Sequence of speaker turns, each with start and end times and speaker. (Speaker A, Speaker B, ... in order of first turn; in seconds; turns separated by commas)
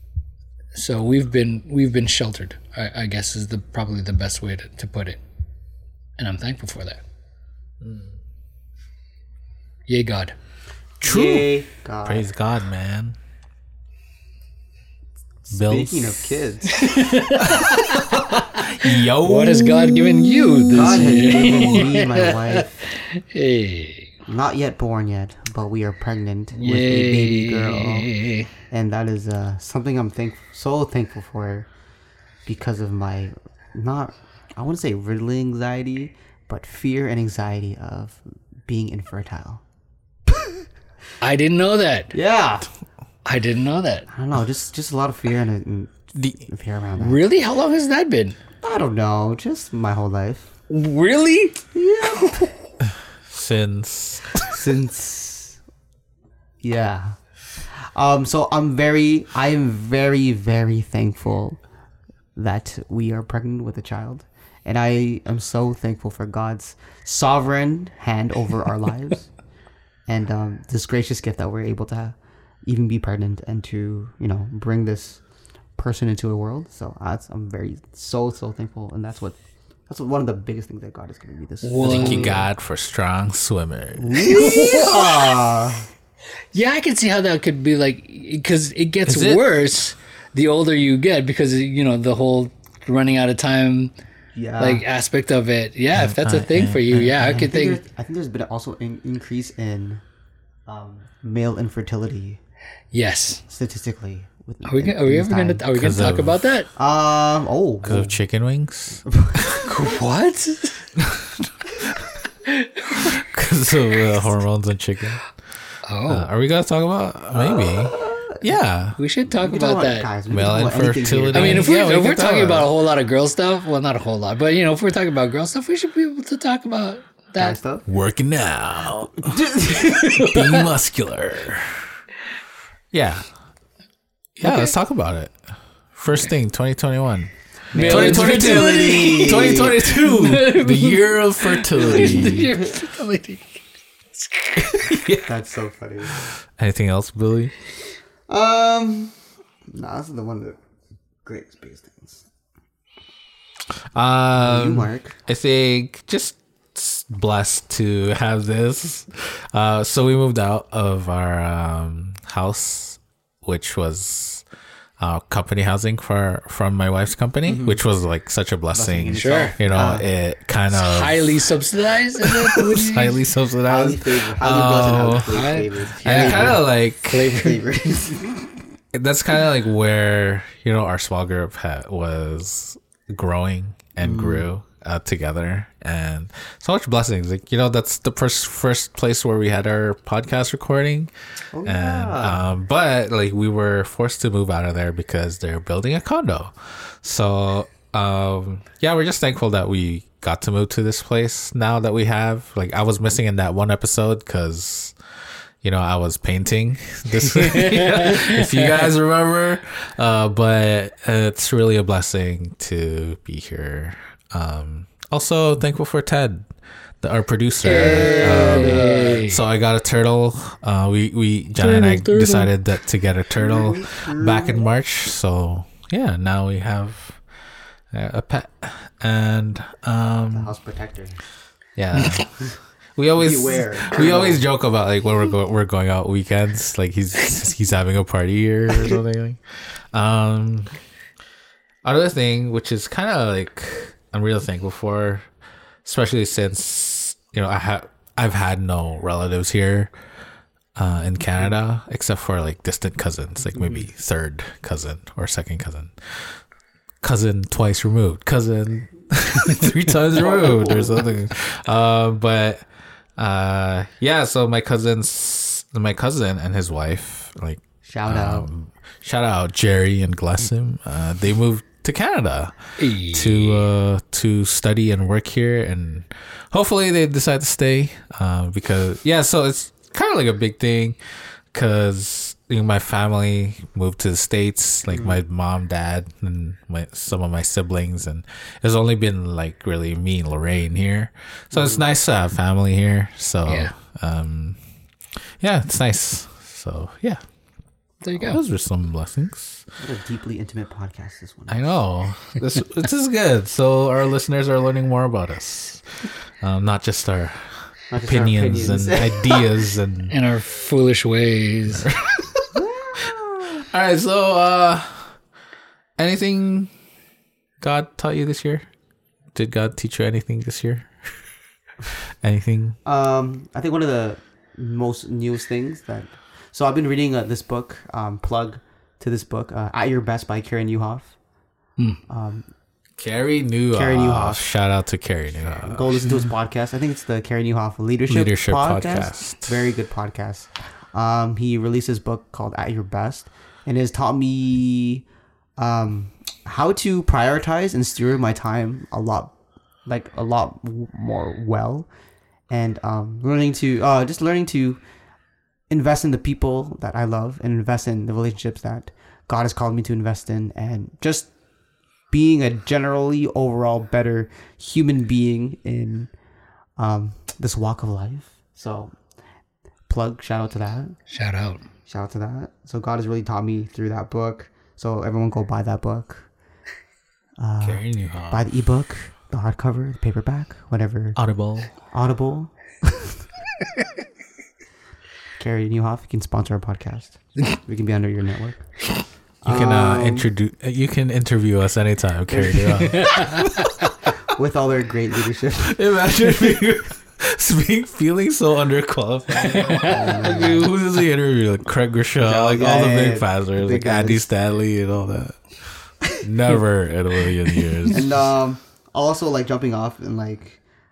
Speaker A: 0.7-5.2, Speaker A: 6.2-7.0, Speaker B: 7.8-8.2, Speaker A: 9.9-10.3, Speaker B: 11.0-11.5, Speaker C: 11.0-12.2, Speaker B: 12.0-13.2, Speaker B: 15.5-16.4, Speaker C: 15.5-17.0, Speaker A: 16.7-18.0, Speaker B: 17.4-21.1, Speaker A: 18.8-24.1, Speaker C: 20.7-22.7, Speaker C: 24.3-28.1, Speaker A: 26.5-28.5, Speaker C: 28.7-31.7, Speaker C: 32.5-39.6, Speaker C: 40.3-40.6, Speaker A: 41.2-42.1, Speaker C: 42.1-42.7, Speaker A: 43.2-44.1, Speaker C: 44.1-47.2, Speaker B: 46.1-46.4, Speaker A: 47.0-48.4, Speaker C: 48.6-50.5, Speaker A: 50.7-52.5, Speaker C: 51.7-52.5, Speaker B: 53.3-54.6, Speaker C: 54.4-55.6, Speaker C: 56.6-61.6, Speaker C: 62.3-69.3, Speaker C: 70.1-75.2, Speaker C: 75.8-79.4, Speaker C: 79.9-82.5, Speaker A: 81.6-82.3, Speaker B: 81.8-85.0, Speaker C: 84.0-85.9, Speaker A: 84.2-85.1, Speaker A: 86.5-93.9, Speaker B: 89.1-89.4, Speaker C: 94.3-94.8, Speaker A: 94.6-97.8, Speaker B: 95.9-97.4, Speaker C: 97.1-100.0, Speaker C: 100.7-102.4, Speaker A: 102.9-103.4, Speaker C: 103.5-105.6, Speaker A: 104.6-106.7, Speaker B: 105.7-106.5, Speaker C: 106.8-108.2, Speaker B: 107.8-109.7, Speaker C: 109.0-109.7, Speaker A: 109.6-110.8, Speaker B: 111.0-112.2, Speaker A: 112.4-113.1, Speaker B: 113.0-115.3, Speaker A: 115.8-116.2, Speaker B: 116.1-119.0, Speaker C: 117.3-118.4, Speaker A: 119.0-120.1, Speaker C: 119.4-121.7, Speaker B: 120.3-122.7, Speaker A: 121.3-127.6, Speaker C: 127.4-127.8, Speaker B: 127.8-131.9, Speaker C: 129.2-130.0, Speaker A: 129.8-130.7, Speaker B: 132.9-133.3, Speaker B: 134.4-135.4, Speaker A: 134.4-134.7, Speaker B: 135.9-142.5, Speaker C: 137.7-139.9, Speaker A: 137.7-143.6, Speaker C: 141.7-142.7, Speaker A: 144.2-144.9, Speaker B: 144.6-145.3, Speaker C: 145.2-146.2, Speaker B: 146.2-147.5, Speaker C: 148.3-149.2, Speaker C: 149.7-150.6, Speaker C: 151.2-152.2, Speaker B: 153.9-164.4, Speaker C: 154.3-155.2, Speaker B: 165.0-171.5, Speaker C: 167.5-167.8, Speaker C: 168.7-170.1, Speaker A: 169.2-169.5, Speaker A: 170.7-173.2, Speaker B: 172.2-175.5, Speaker C: 173.7-176.6, Speaker A: 175.3-177.7, Speaker B: 176.0-177.4, Speaker C: 177.2-178.6, Speaker B: 178.9-191.1, Speaker C: 184.0-184.4, Speaker C: 191.5-192.4, Speaker B: 191.6-204.9, Speaker B: 205.6-216.5, Speaker A: 207.4-208.6, Speaker B: 217.0-227.2, Speaker C: 217.6-219.2, Speaker A: 217.6-219.4, Speaker A: 221.6-222.5, Speaker C: 223.3-224.6, Speaker B: 227.9-230.5, Speaker C: 230.3-231.2, Speaker B: 231.8-240.7, Speaker A: 231.9-232.2, Speaker C: 233.2-234.4, Speaker B: 241.8-245.3, Speaker B: 245.8-249.9, Speaker B: 250.7-256.4, Speaker C: 253.6-253.9, Speaker B: 257.0-262.6, Speaker C: 260.1-261.2, Speaker B: 263.2-281.0, Speaker C: 267.8-268.5, Speaker A: 272.8-273.7, Speaker B: 281.5-294.6, Speaker C: 284.9-285.2, Speaker C: 291.5-291.9, Speaker A: 293.4-293.7, Speaker B: 295.4-297.3, Speaker A: 298.0-298.4, Speaker B: 298.1-299.6, Speaker C: 299.8-302.3, Speaker B: 301.5-310.1, Speaker C: 307.9-309.5, Speaker A: 310.1-311.9, Speaker B: 311.8-312.5, Speaker C: 312.5-313.6, Speaker B: 313.5-315.2, Speaker B: 316.0-316.7, Speaker B: 317.6-318.7, Speaker B: 319.3-321.3, Speaker B: 321.9-322.8, Speaker C: 322.8-331.1, Speaker C: 332.1-332.5, Speaker B: 333.0-336.1, Speaker C: 333.7-334.4, Speaker C: 335.5-349.3, Speaker B: 338.1-339.6, Speaker C: 349.8-351.9, Speaker C: 352.5-354.8, Speaker C: 355.7-361.3, Speaker C: 362.1-366.1, Speaker C: 366.8-369.0, Speaker C: 369.9-371.0, Speaker A: 371.1-371.6, Speaker C: 371.9-376.3, Speaker C: 377.4-381.2, Speaker B: 377.6-378.4, Speaker B: 381.1-381.7, Speaker C: 381.8-383.1, Speaker C: 385.4-390.3, Speaker B: 389.5-394.1, Speaker C: 392.3-393.3, Speaker C: 394.3-395.8, Speaker B: 395.7-408.1, Speaker A: 399.6-399.9, Speaker C: 399.9-400.7, Speaker C: 402.2-404.3, Speaker C: 407.9-410.6